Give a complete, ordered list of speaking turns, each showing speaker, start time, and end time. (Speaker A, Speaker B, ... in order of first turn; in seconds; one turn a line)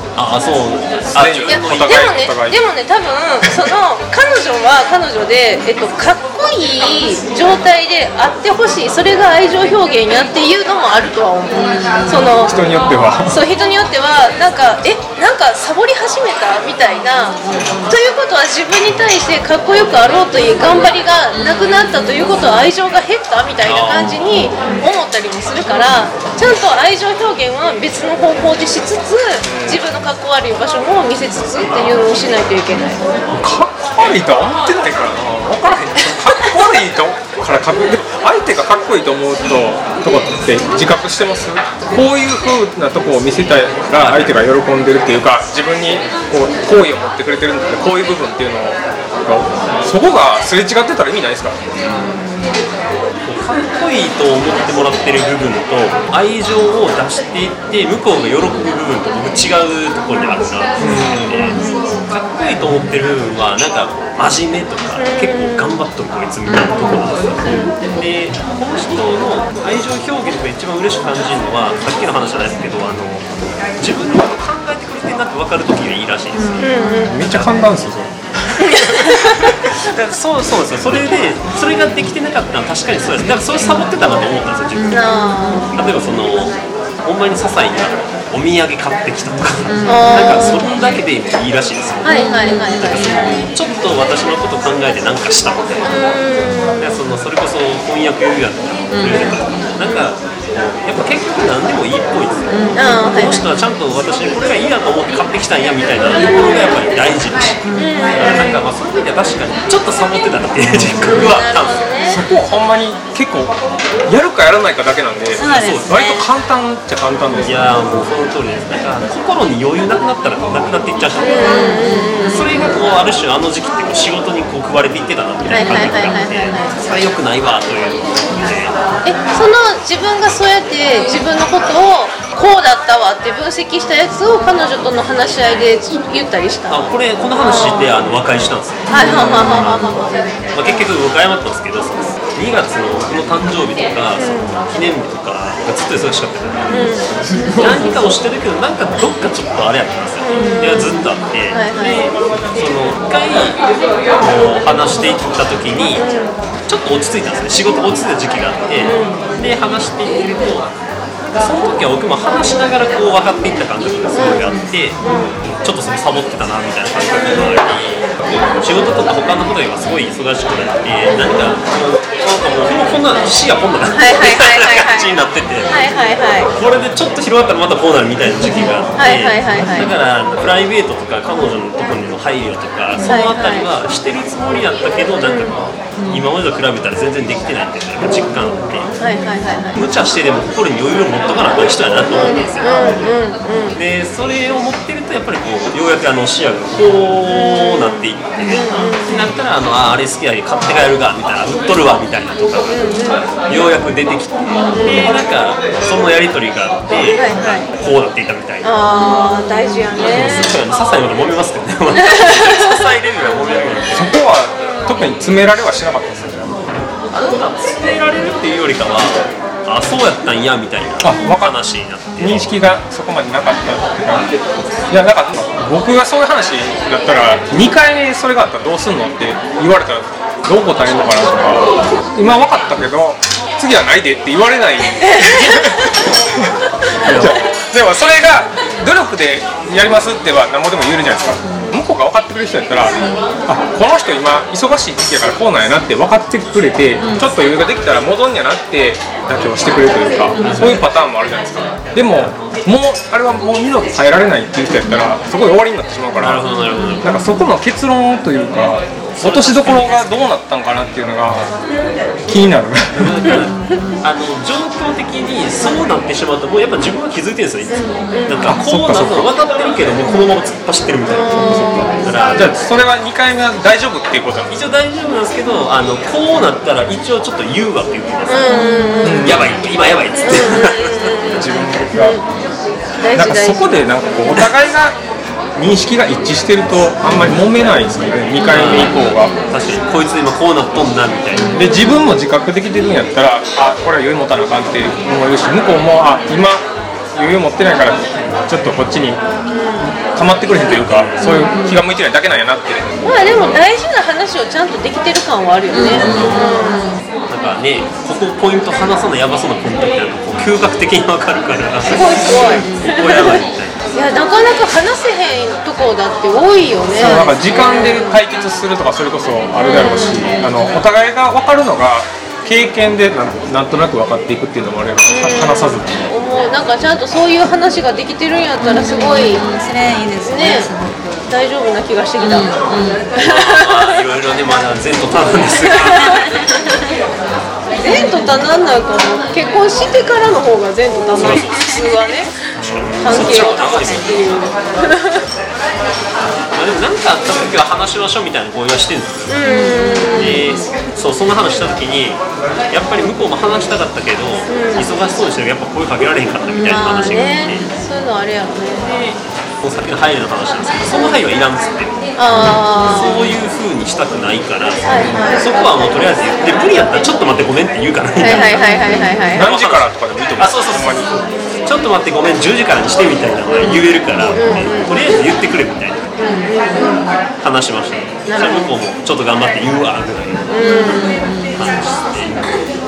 Speaker A: 0.1-2.1
Speaker B: 1.1-2.6
Speaker C: 1.5-12.5
Speaker D: 11.5-12.2
Speaker B: 12.3-13.4
Speaker C: 13.3-33.0
Speaker D: 17.4-17.9
Speaker A: 23.6-24.2
Speaker B: 29.4-29.8
Speaker B: 33.3-51.6
Speaker A: 43.9-44.4
Speaker A: 51.8-52.2
Speaker A: 53.2-77.6
Speaker B: 60.8-61.5
Speaker D: 61.4-61.6
Speaker C: 61.4-62.0
Speaker C: 65.0-65.7
Speaker D: 66.5-67.0
Speaker C: 67.4-67.7
Speaker D: 76.3-77.1
Speaker C: 76.6-77.2
Speaker B: 77.0-79.7
Speaker C: 78.6-79.5
Speaker A: 79.8-85.0
Speaker D: 84.7-85.7
Speaker C: 84.9-85.8
Speaker A: 85.7-96.0
Speaker D: 89.7-90.8
Speaker C: 89.8-90.6
Speaker C: 92.0-93.2
Speaker D: 92.1-93.5
Speaker C: 95.8-97.0
Speaker A: 96.8-107.6
Speaker D: 98.9-99.6
Speaker C: 99.8-100.1
Speaker D: 102.5-102.8
Speaker C: 102.7-103.5
Speaker D: 107.6-108.3
Speaker C: 107.7-108.6
Speaker A: 108.1-111.9
Speaker B: 110.6-111.2
Speaker C: 111.0-112.2
Speaker B: 112.1-113.5
Speaker B: 114.1-118.1
Speaker D: 115.3-116.2
Speaker A: 115.5-116.0
Speaker A: 117.4-128.8
Speaker C: 121.2-122.5
Speaker D: 121.4-122.7
Speaker C: 125.5-126.7
Speaker C: 129.0-136.8
Speaker A: 136.7-146.9
Speaker C: 137.4-137.9
Speaker C: 138.9-140.9
Speaker D: 139.0-139.5
Speaker C: 144.2-144.5
Speaker C: 146.7-147.1
Speaker A: 147.5-153.6
Speaker C: 150.2-151.0
Speaker C: 151.5-152.0
Speaker A: 154.2-156.0
Speaker C: 155.9-156.3
Speaker A: 156.7-160.7
Speaker C: 158.8-159.2
Speaker A: 161.3-175.7
Speaker C: 164.1-165.4
Speaker C: 167.2-167.6
Speaker C: 173.9-175.1
Speaker C: 175.7-176.5
Speaker A: 176.5-188.9
Speaker C: 179.0-179.9
Speaker C: 183.0-183.7
Speaker C: 185.2-185.6
Speaker D: 186.0-186.2
Speaker C: 189.0-189.8
Speaker A: 189.8-192.7
Speaker C: 192.1-193.8
Speaker A: 193.7-208.7
Speaker C: 197.2-199.3
Speaker C: 202.7-203.2
Speaker C: 204.7-205.2
Speaker C: 207.1-207.7
Speaker C: 208.6-210.5
Speaker A: 210.0-214.1
Speaker C: 212.0-212.8
Speaker B: 213.9-216.6
Speaker C: 214.6-214.9
Speaker A: 217.1-222.5
Speaker B: 221.0-221.6
Speaker B: 222.2-224.3
Speaker B: 224.9-256.5
Speaker C: 235.1-235.8
Speaker A: 237.1-237.4
Speaker A: 250.4-250.8
Speaker A: 256.2-257.1
Speaker D: 256.8-257.1
Speaker B: 257.0-261.5
Speaker A: 259.1-260.2
Speaker B: 262.2-263.4
Speaker A: 262.9-272.6
Speaker C: 267.7-268.5
Speaker B: 268.4-269.3
Speaker C: 271.1-272.1
Speaker B: 272.3-274.5
Speaker A: 274.5-278.6
Speaker C: 278.3-279.3
Speaker B: 279.0-279.6
Speaker A: 279.2-281.4
Speaker C: 280.2-281.4
Speaker B: 281.3-282.2
Speaker C: 281.9-282.2
Speaker C: 283.0-283.8
Speaker B: 283.1-285.0
Speaker B: 285.5-289.3
Speaker A: 288.4-291.6
Speaker B: 291.5-299.2
Speaker C: 291.6-291.9
Speaker C: 299.5-299.9
Speaker B: 299.8-302.9
Speaker A: 300.8-301.2
Speaker D: 301.2-301.7
Speaker C: 303.0-306.9
Speaker D: 305.7-307.0
Speaker A: 305.9-306.6
Speaker A: 307.3-313.8
Speaker C: 311.8-318.1
Speaker B: 316.9-326.1
Speaker C: 319.6-320.3
Speaker C: 325.1-329.4
Speaker D: 328.6-331.2
Speaker C: 330.2-330.7
Speaker C: 331.3-333.9
Speaker D: 332.2-333.0
Speaker A: 333.2-336.3
Speaker C: 335.8-336.2
Speaker C: 337.8-342.3
Speaker D: 337.9-338.3
Speaker A: 341.1-341.8
Speaker A: 342.6-344.4
Speaker B: 342.6-343.0
Speaker C: 343.0-345.2
Speaker A: 346.5-349.3
Speaker C: 349.3-350.4
Speaker D: 349.4-350.6
Speaker A: 350.1-357.7
Speaker C: 354.5-354.9
Speaker C: 356.6-358.9
Speaker A: 358.8-371.1
Speaker C: 360.9-361.2
Speaker C: 362.1-363.2
Speaker C: 364.8-365.7
Speaker C: 368.2-369.5
Speaker B: 369.3-371.2
Speaker A: 371.6-376.0
Speaker C: 374.3-375.0
Speaker C: 376.2-377.1
Speaker A: 377.4-380.5
Speaker C: 378.3-378.7
Speaker C: 380.5-381.2
Speaker D: 380.6-381.5
Speaker A: 381.5-382.5